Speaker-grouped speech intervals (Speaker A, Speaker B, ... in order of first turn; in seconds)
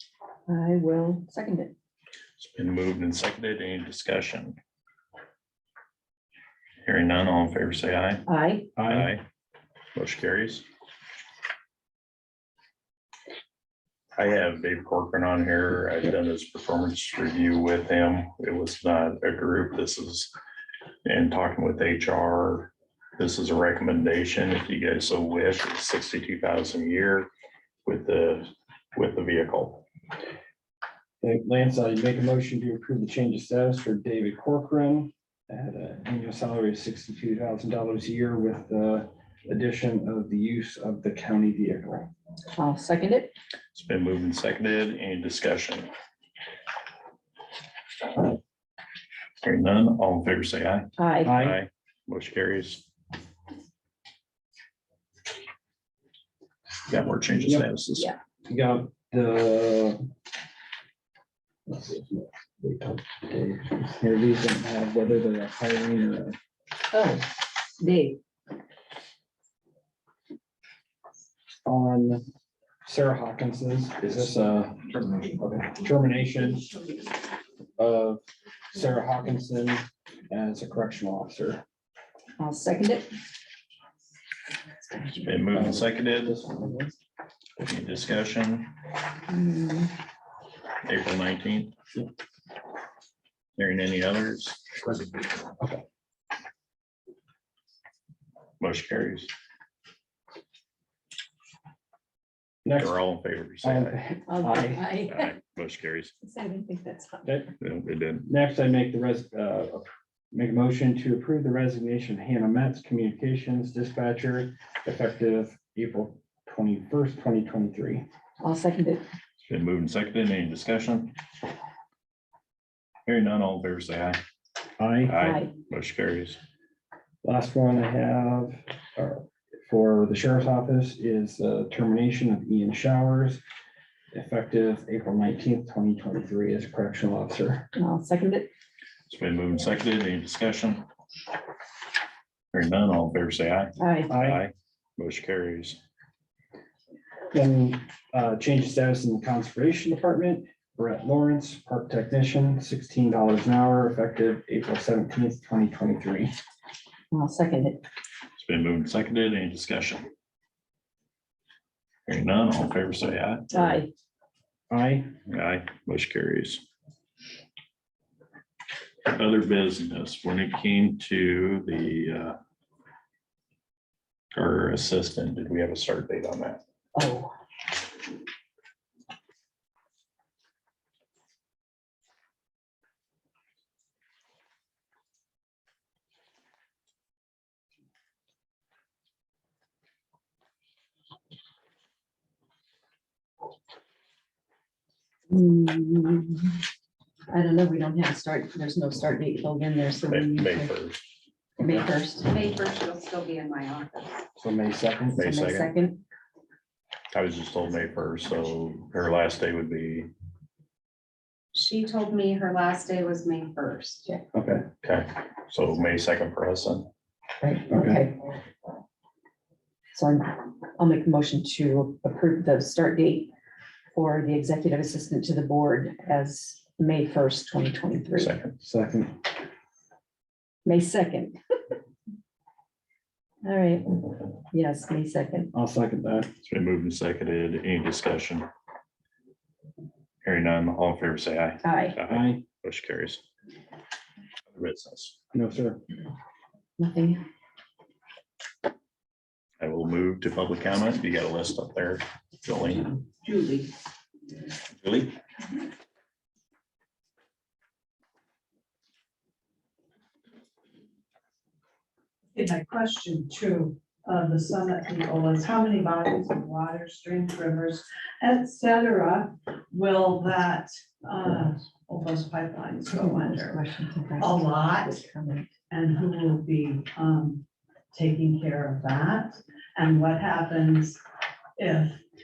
Speaker A: 0.5-1.7, 8.2-8.7, 42.5-43.3, 51.0-51.4, 82.4-83.1, 84.9-85.3, 89.3-89.9, 104.3-105.3, 106.2-107.4, 118.4-119.0, 125.2-125.5, 137.7-138.5, 143.8-144.1, 157.1-157.8, 163.5-163.9, 176.9-177.3, 195.3-196.6, 197.3-200.7, 201.6-202.3, 205.2-206.0, 217.4-218.2, 219.9-223.3, 223.9-228.3, 230.6-231.4, 233.4-235.5, 241.6-242.0, 246.8-247.2, 272.8-275.5
Speaker B: 2.4-4.6, 6.8-8.2, 8.8-9.2, 9.9-10.6, 14.2-20.3, 21.0-27.3, 27.8-29.8, 43.7-45.9, 49.4-52.9, 56.9-58.1, 85.2-86.3, 87.6-88.7, 90.8-91.7, 93.6-95.1, 98.6-99.3, 102.8-104.0, 105.1-106.1, 107.6-108.3, 119.4-121.2, 123.0-124.2, 125.0-126.4, 139.1-140.8, 142.5-145.8, 158.4-160.1, 162.1-163.8, 165.3-166.6, 169.1-172.4, 174.3-176.6, 200.1-201.1, 205.1-205.7, 207.1-210.1, 214.8-216.9, 228.2-228.5, 236.4-238.4, 240.2-243.2, 244.5-245.2, 249.6-252.9, 254.7-255.2
Speaker C: 8.8-9.1, 31.2-42.1, 51.2-51.6, 58.5-60.0, 61.7-66.4, 71.6-72.2, 72.8-76.7, 77.8-81.6, 85.5-86.9, 102.6-102.9, 103.6-104.9, 108.2-118.0, 124.8-125.2, 127.2-133.4, 134.1-137.7, 144.1-144.4, 147.3-156.3, 164.7-165.1, 204.3-205.2, 214.3-214.6, 217.7-218.0, 228.6-229.1, 235.5-236.3, 242.1-242.4, 245.3-245.8
Speaker D: 66.9-68.2, 202.2-204.2, 211.5-214.1
Speaker E: 253.2-253.7, 262.3-273.6, 274.2-275.0, 275.7-281.0, 281.6-282.0